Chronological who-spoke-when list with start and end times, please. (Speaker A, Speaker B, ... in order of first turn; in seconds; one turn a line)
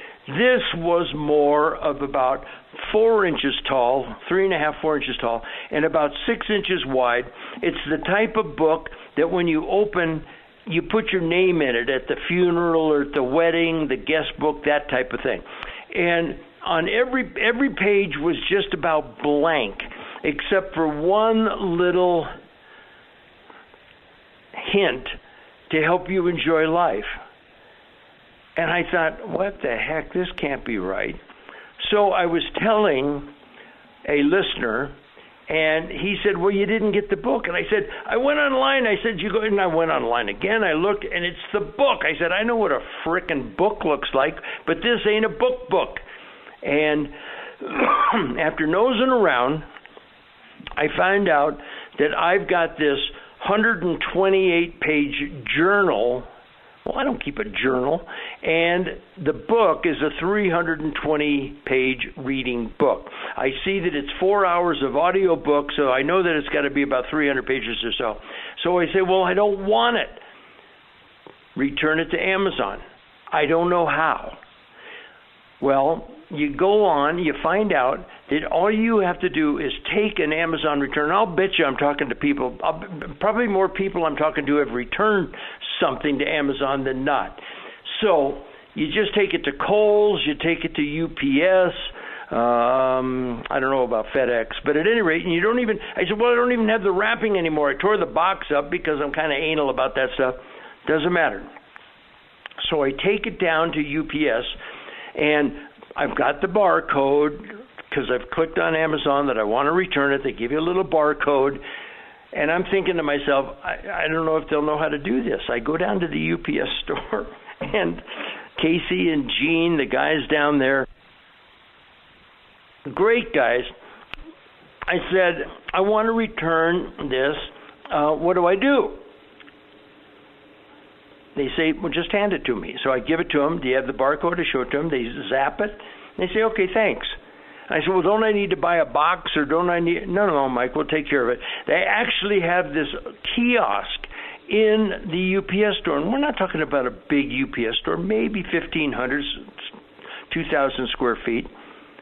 Speaker A: 0.3-22.3
Speaker A: 24.6-25.2
Speaker A: 25.7-27.1
Speaker A: 28.6-31.2
Speaker A: 31.8-33.3
Speaker A: 34.1-35.0
Speaker A: 35.5-46.0
Speaker A: 46.6-49.7
Speaker A: 50.8-56.3
Speaker A: 56.9-70.2
Speaker A: 71.6-74.4
Speaker A: 75.6-101.5
Speaker A: 102.6-104.6
Speaker A: 105.2-111.6
Speaker A: 112.3-118.0
Speaker A: 118.6-120.9
Speaker A: 122.9-123.7
Speaker A: 124.9-129.0
Speaker A: 131.4-137.2
Speaker A: 137.7-149.4
Speaker A: 150.3-151.5